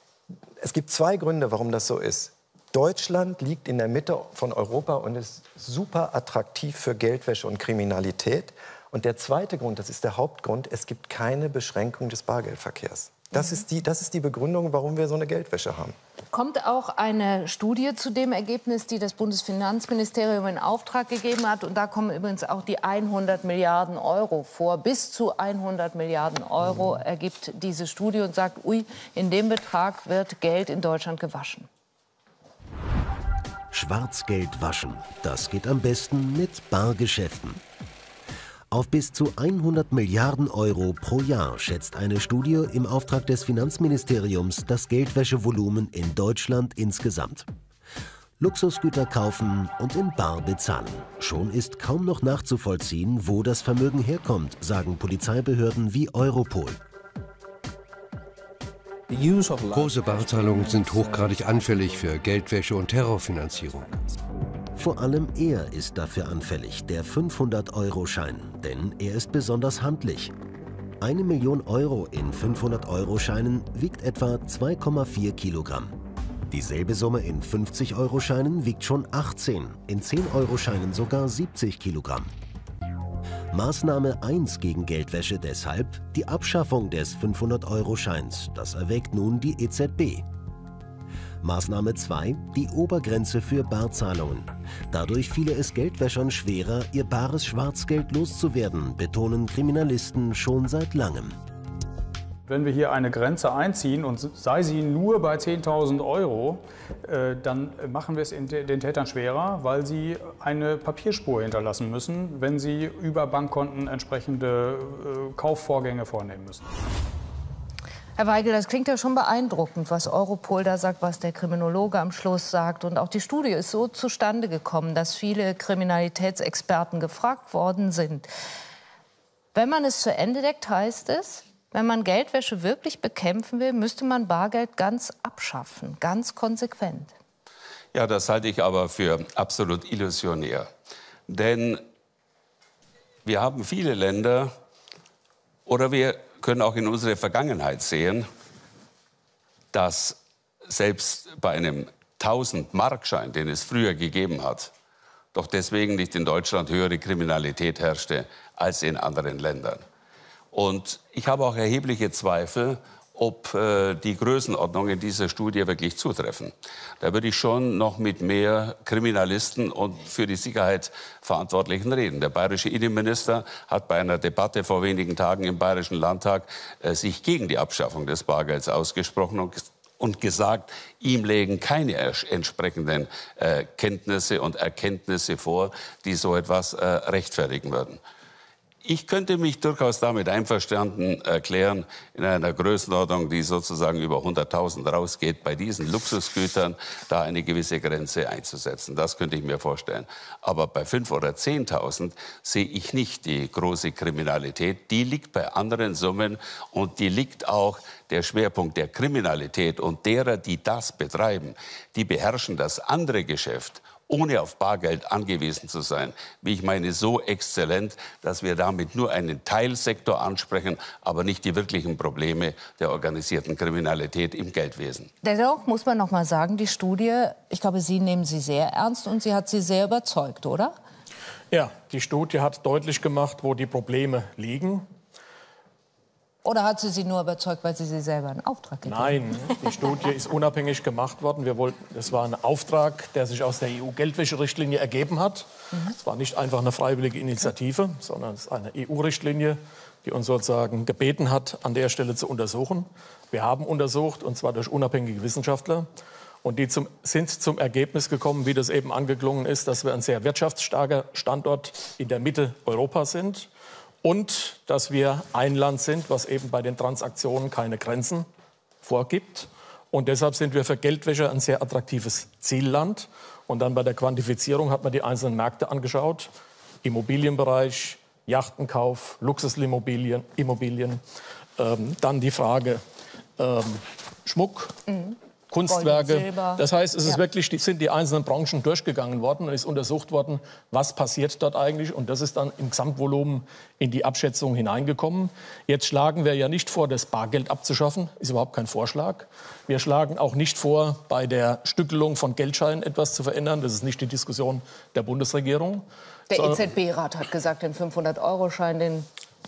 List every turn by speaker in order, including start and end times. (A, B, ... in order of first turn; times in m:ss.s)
0:00.6-0:15.9 A
0:16.3-0:31.7 B
0:33.7-0:37.6 C
0:38.7-0:47.5 C
0:48.4-0:56.8 C
0:59.1-1:04.0 D
1:04.8-1:10.3 C
1:11.0-1:16.0 C
1:16.5-1:22.3 C
1:23.5-1:30.3 C
1:31.4-1:41.4 C
1:42.5-1:56.7 E
1:58.2-2:08.3 B
2:09.5-2:17.1 B
2:17.9-2:20.7 F
2:21.3-2:21.8 F
2:23.2-2:24.5 F
2:25.7-2:28.2 F
2:29.7-2:34.7 F
2:35.3-2:39.8 F
2:40.5-3:08.0 F
3:08.8-3:45.1 F
3:45.2-3:50.7 B
3:51.5-3:54.9 G
3:56.4-4:00.0 B
3:58.8-4:15.9 G
4:16.4-4:23.5 G
4:24.0-4:28.2 G
4:28.8-4:36.3 G
4:36.8-4:41.0 G
4:41.6-4:42.8 G
4:43.4-4:44.7 G
4:44.9-4:45.2 B
4:45.5-5:06.6 G
4:45.7-4:47.2 B
5:06.3-5:09.1 B